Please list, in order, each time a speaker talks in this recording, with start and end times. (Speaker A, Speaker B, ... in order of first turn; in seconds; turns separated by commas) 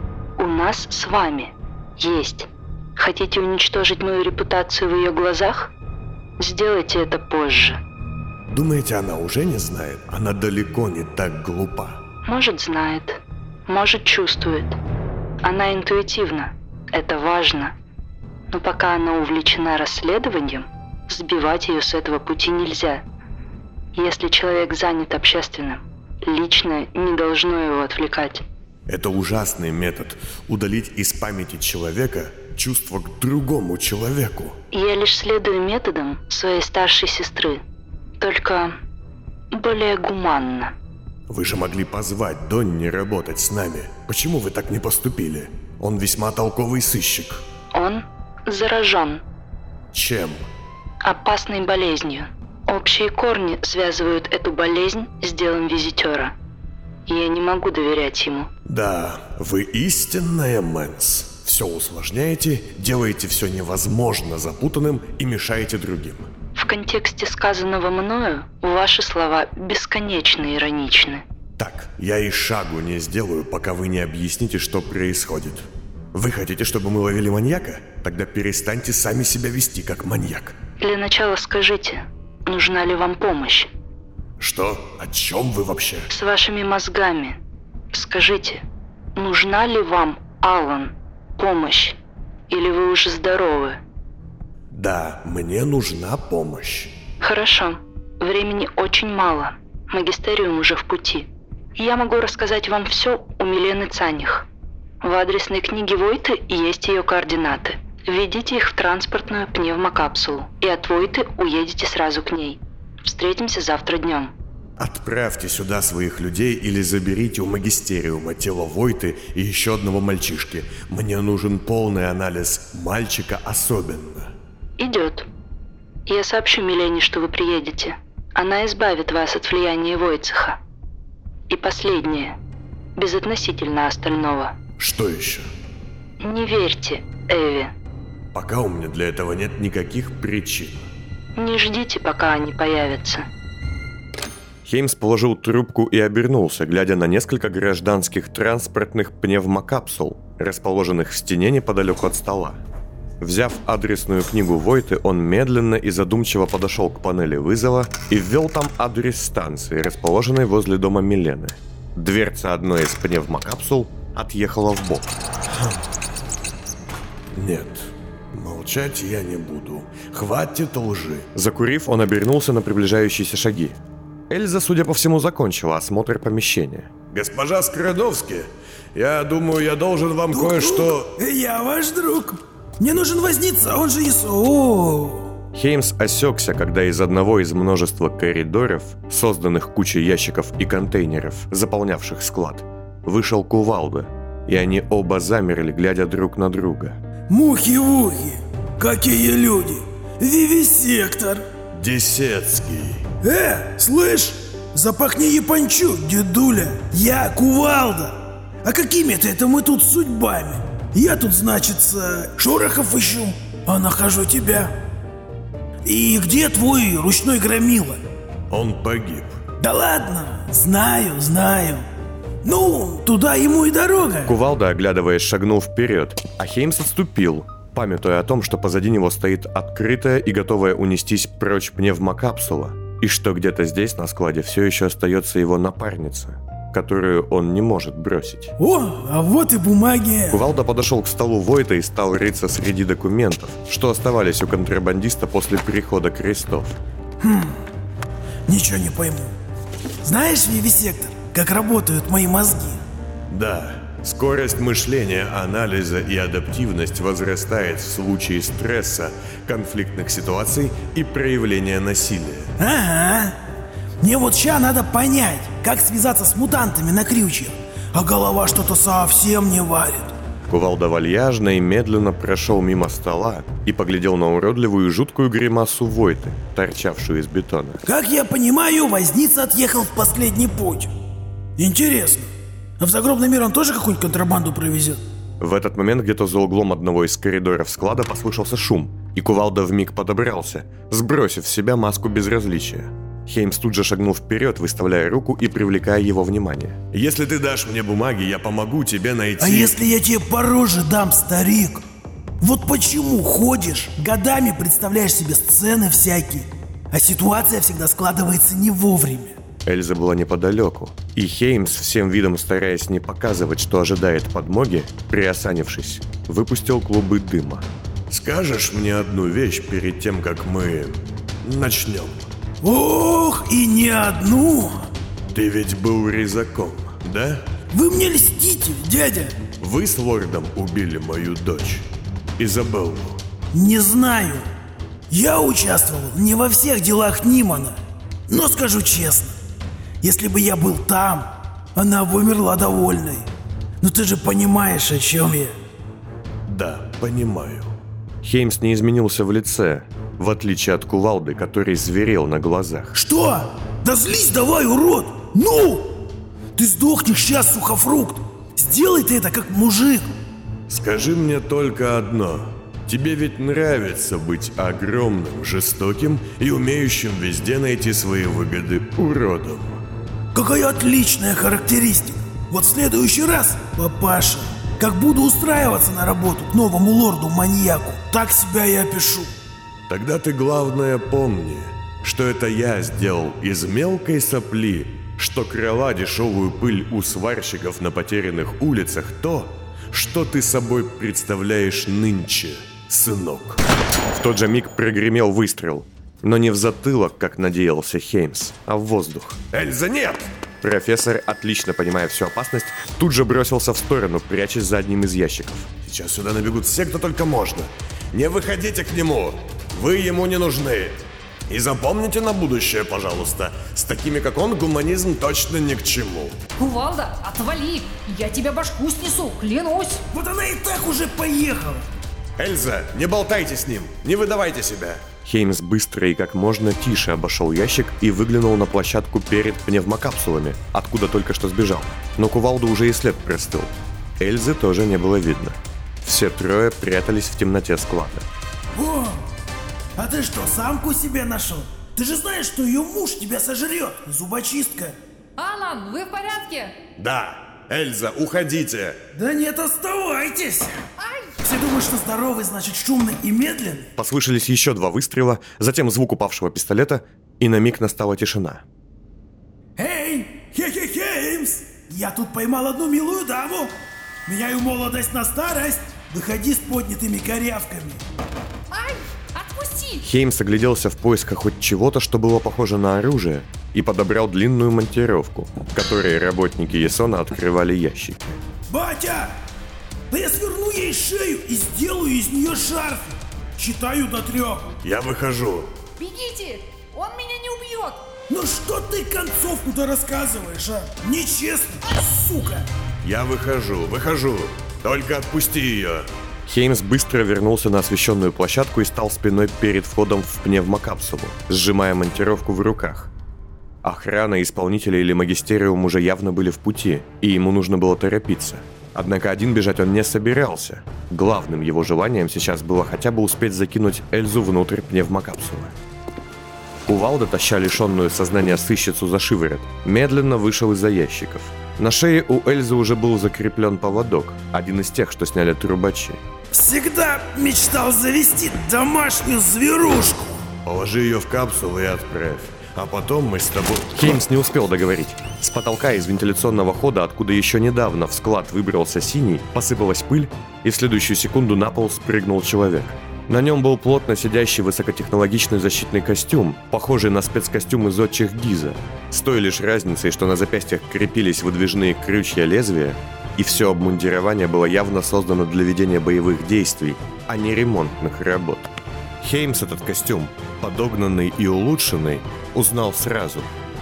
Speaker A: 0.4-5.7, Speaker A: 6.4-7.8, Speaker B: 8.5-12.0, Speaker A: 12.3-14.8, Speaker A: 15.4-17.7, Speaker A: 18.5-23.0, Speaker A: 23.9-28.4, Speaker B: 28.9-34.6, Speaker A: 34.7-37.6, Speaker A: 38.2-38.8, Speaker A: 39.5-40.7, Speaker B: 41.3-47.4, Speaker A: 47.7-49.2, Speaker B: 49.9-50.4, Speaker A: 51.0-56.4, Speaker A: 57.1-58.5, Speaker B: 58.7-66.3, Speaker A: 66.5-71.2, Speaker B: 71.6-80.6, Speaker A: 80.8-83.7, Speaker B: 84.4-86.1, Speaker A: 86.1-87.4, Speaker A: 87.9-88.6, Speaker A: 89.2-92.0, Speaker A: 92.5-93.8, Speaker B: 94.7-96.9, Speaker A: 97.2-104.5, Speaker A: 105.0-114.3, Speaker B: 114.8-124.3, Speaker A: 124.8-125.3, Speaker A: 126.1-130.6, Speaker A: 131.5-132.4, Speaker A: 133.0-134.6, Speaker B: 134.8-135.5, Speaker A: 136.2-137.7, Speaker B: 138.3-140.9, Speaker A: 141.4-143.3, Speaker C: 144.7-152.6, Speaker C: 153.2-165.1, Speaker B: 165.5-165.8, Speaker B: 167.3-171.3, Speaker C: 171.3-173.8, Speaker C: 174.3-176.9, Speaker B: 177.1-181.1, Speaker D: 180.3-185.3, Speaker C: 185.5-197.0, Speaker D: 197.3-201.4, Speaker B: 201.7-203.1, Speaker D: 203.2-214.7, Speaker D: 215.8-218.0, Speaker B: 218.5-219.4, Speaker D: 219.6-221.9, Speaker D: 222.4-224.4, Speaker C: 224.3-238.5, Speaker D: 238.6-240.4, Speaker C: 240.3-246.8, Speaker D: 247.2-247.6, Speaker D: 248.5-249.3, Speaker D: 250.0-252.8, Speaker B: 253.3-262.5, Speaker D: 262.6-263.4, Speaker D: 264.0-270.1, Speaker C: 270.5-277.8, Speaker D: 277.9-280.9, Speaker D: 281.6-285.0, Speaker C: 285.4-296.8, Speaker B: 296.9-299.8, Speaker D: 299.4-301.8, Speaker D: 302.4-309.4, Speaker C: 309.6-317.7, Speaker B: 318.1-322.3, Speaker D: 322.6-324.8, Speaker B: 325.3-327.5, Speaker D: 327.7-329.4, Speaker B: 329.6-331.9, Speaker B: 332.4-333.2, Speaker D: 333.5-334.5, Speaker D: 335.1-337.8, Speaker D: 338.3-339.4, Speaker D: 340.0-343.3, Speaker D: 343.8-345.6, Speaker B: 346.5-347.7, Speaker C: 348.2-353.0, Speaker D: 352.9-356.0, Speaker D: 356.6-360.1, Speaker B: 360.7-369.8, Speaker D: 370.3-379.3, Speaker B: 379.9-393.6, Speaker C: 394.1-399.4, Speaker B: 399.5-400.3, Speaker C: 400.6-405.7, Speaker B: 405.8-411.0, Speaker B: 411.5-416.4, Speaker E: 416.6-420.0, Speaker D: 420.1-421.9, Speaker B: 422.4-425.1, Speaker C: 425.2-438.3, Speaker D: 438.7-439.2, Speaker D: 440.0-445.0, Speaker E: 445.4-446.8, Speaker B: 447.0-449.0, Speaker D: 449.1-450.7, Speaker E: 451.0-451.3, Speaker D: 451.4-453.9, Speaker C: 454.0-458.6, Speaker D: 459.8-463.7, Speaker D: 464.3-468.0, Speaker E: 468.7-470.0, Speaker C: 470.0-478.4, Speaker D: 478.7-479.3, Speaker D: 480.1-484.7, Speaker B: 484.8-485.7, Speaker E: 486.0-488.0, Speaker D: 488.3-492.7, Speaker B: 493.0-496.1, Speaker C: 496.5-503.1, Speaker C: 503.8-515.7, Speaker C: 516.9-526.2, Speaker D: 526.5-530.4, Speaker B: 530.6-534.0, Speaker C: 533.9-558.7, Speaker C: 559.2-563.5